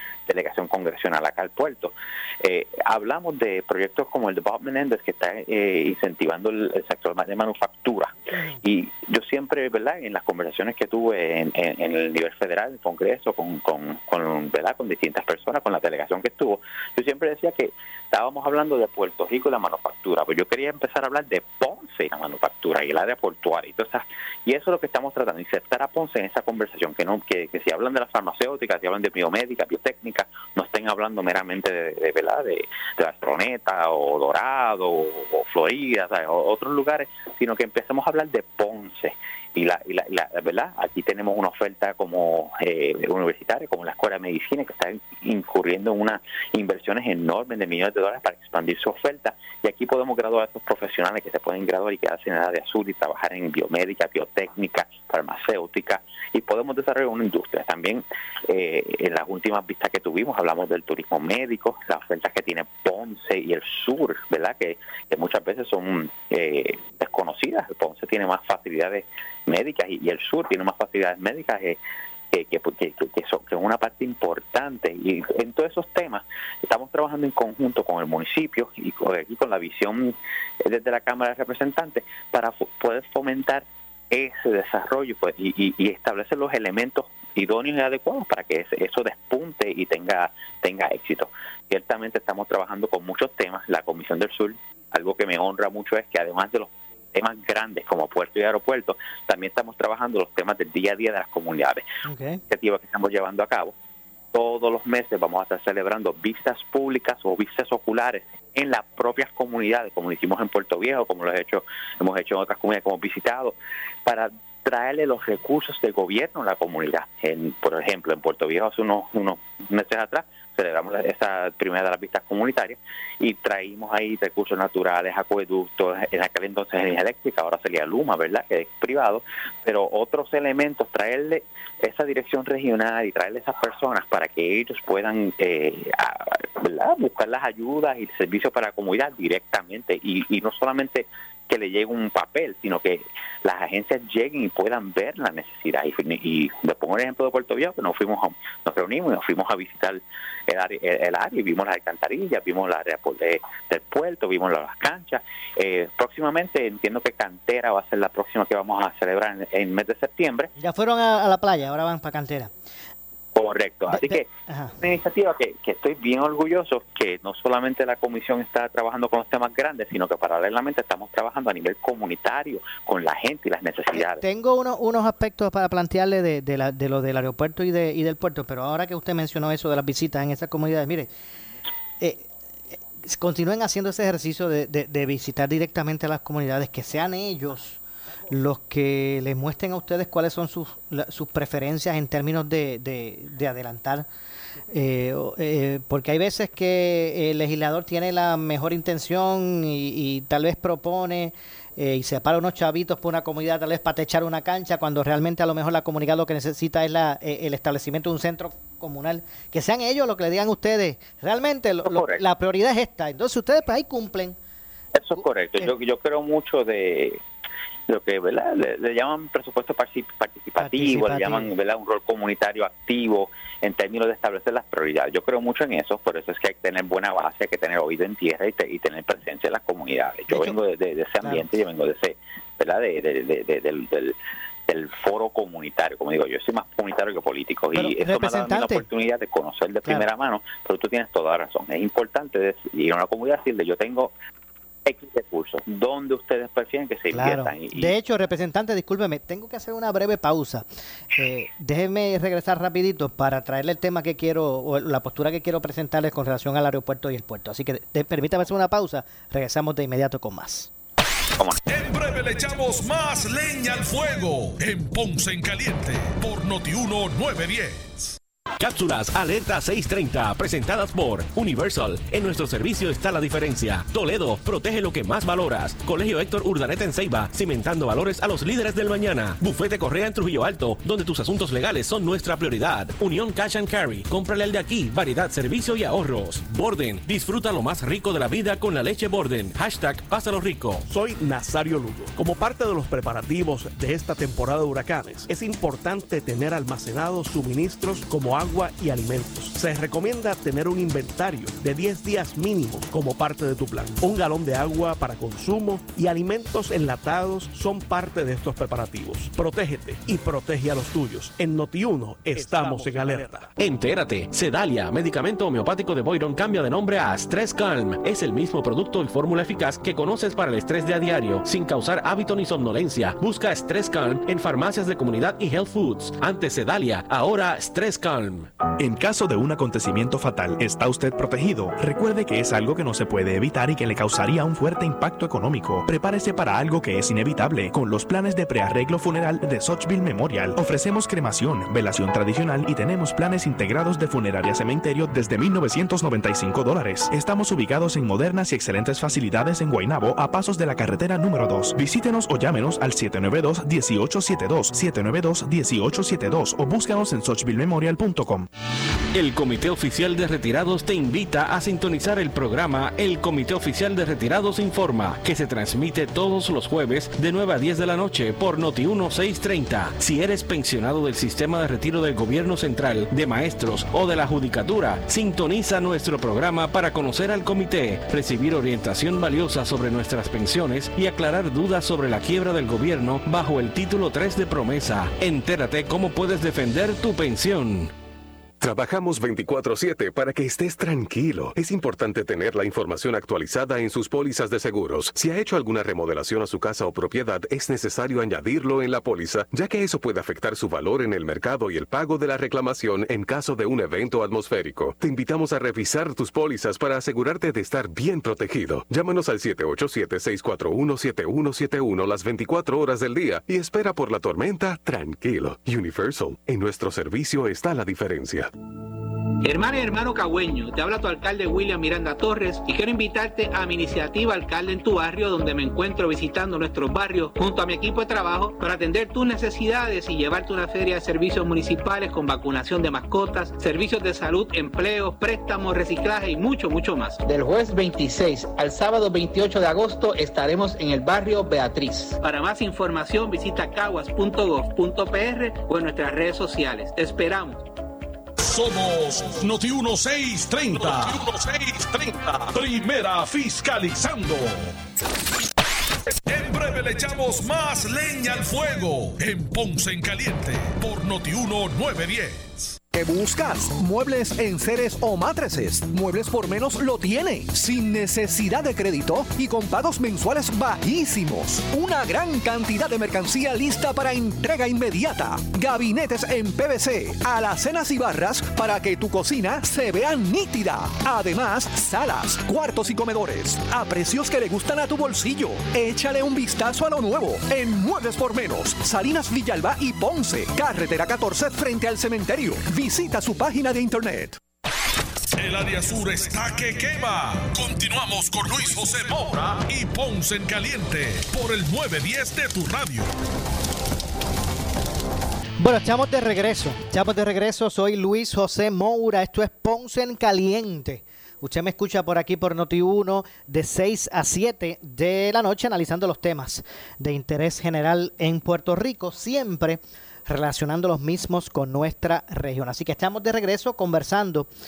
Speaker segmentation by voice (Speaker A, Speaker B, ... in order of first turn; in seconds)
Speaker A: 0.3-71.8, 72.3-101.8, 102.5-103.7, 104.3-160.5, 163.3-174.2, 211.8-212.2, 214.9-217.2, 217.9-234.2, 234.7-244.1, 244.8-247.9
Speaker B: 8.3-8.6, 102.1-102.4, 160.6-162.5, 163.9-164.8, 173.9-181.1, 182.0-182.3, 183.0-194.1, 194.7-214.4, 215.1-215.7, 220.6-221.5, 230.3-230.6, 237.8-238.9, 247.1-260.7, 505.6-524.5
Speaker C: 261.6-268.2, 448.4-454.7, 456.3-462.8, 495.4-503.1
Speaker D: 268.6-290.8, 313.6-328.5, 359.1-387.9
Speaker E: 290.9-313.5
Speaker F: 328.8-358.5
Speaker G: 388.6-418.5
Speaker H: 419.4-437.2, 442.2-447.6
Speaker I: 437.2-442.2
Speaker J: 462.9-494.4